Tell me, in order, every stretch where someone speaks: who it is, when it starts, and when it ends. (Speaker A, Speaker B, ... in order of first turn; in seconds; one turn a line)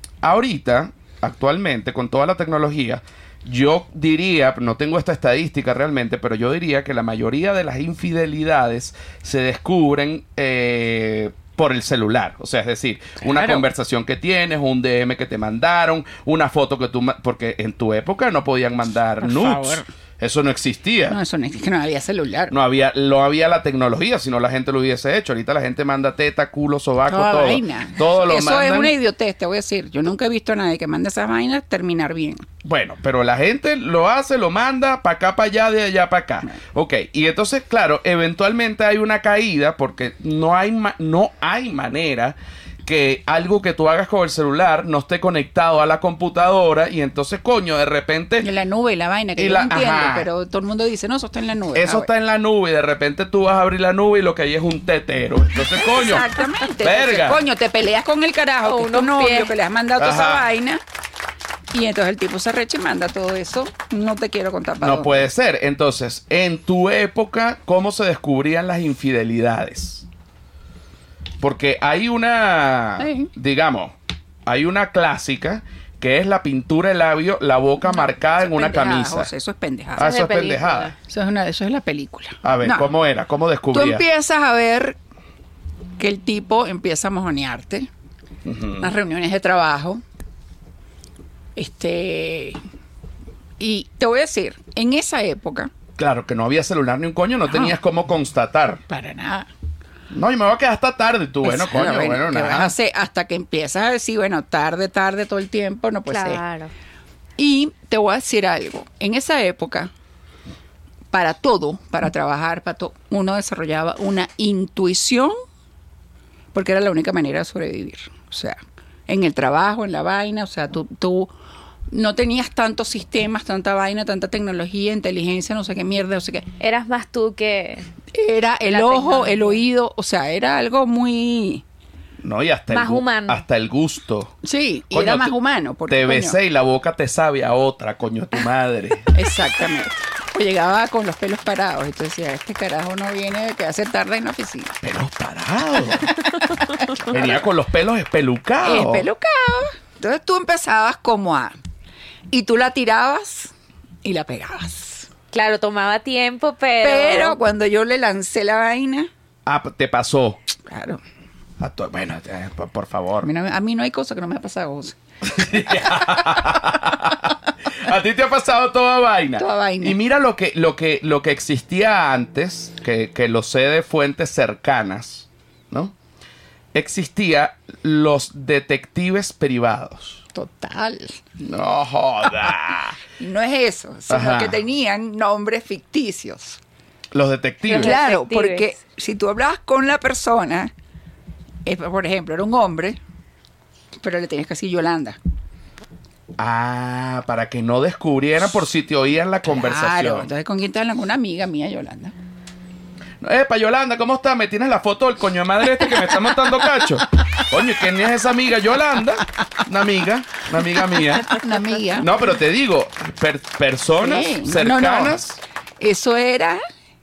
Speaker A: 0.2-21.2
Speaker B: 13.2-13.7
Speaker B: 19.2-19.9
Speaker B: 21.1-22.6
Speaker A: 22.5-28.9
Speaker B: 27.1-32.5
Speaker A: 32.6-48.5
Speaker B: 48.4-52.1
Speaker A: 49.4-50.3
Speaker A: 51.7-57.4
Speaker B: 55.7-60.8
Speaker C: 58.6-59.5
Speaker A: 60.0-60.5
Speaker B: 61.7-65.3
Speaker A: 64.8-70.1
Speaker A: 71.4-74.0
Speaker B: 73.0-73.3
Speaker A: 74.5-79.3
Speaker B: 78.0-80.2
Speaker A: 80.0-80.9
Speaker C: 80.0-80.9
Speaker B: 81.1-82.9
Speaker A: 82.4-84.0
Speaker B: 83.7-85.0
Speaker B: 86.0-87.9
Speaker A: 88.5-88.9
Speaker B: 88.8-90.0
Speaker B: 91.6-92.6
Speaker B: 93.6-95.7
Speaker A: 96.0-98.8
Speaker B: 97.5-97.8
Speaker B: 98.9-99.5
Speaker A: 100.1-102.7
Speaker B: 101.4-106.4
Speaker C: 106.1-106.7
Speaker B: 107.4-109.9
Speaker B: 111.1-115.3
Speaker B: 116.5-121.3
Speaker B: 121.9-126.5
Speaker C: 126.6-127.9
Speaker B: 128.1-131.6
Speaker C: 128.7-129.6
Speaker A: 132.2-134.3
Speaker C: 132.7-133.4
Speaker B: 134.4-136.4
Speaker A: 134.9-135.3
Speaker A: 135.9-139.1
Speaker B: 139.1-144.8
Speaker A: 144.8-146.1
Speaker A: 147.1-149.1
Speaker B: 148.6-151.6
Speaker B: 152.3-155.1
Speaker C: 155.3-157.4
Speaker B: 156.8-159.1
Speaker A: 159.5-160.4
Speaker B: 160.7-161.0
Speaker A: 161.6-163.3
Speaker B: 163.2-165.0
Speaker A: 165.2-175.9
Speaker B: 169.4-170.0
Speaker A: 176.7-180.2
Speaker B: 180.3-181.2
Speaker A: 181.4-183.0
Speaker B: 183.2-186.6
Speaker A: 184.1-184.6
Speaker A: 187.1-188.0
Speaker C: 187.7-188.7
Speaker B: 187.7-190.7
Speaker B: 191.7-193.0
Speaker B: 194.0-195.2
Speaker A: 196.4-200.3
Speaker B: 199.5-202.1
Speaker A: 203.2-211.4
Speaker B: 211.3-212.1
Speaker A: 211.9-215.4
Speaker B: 214.0-215.2
Speaker B: 215.8-216.6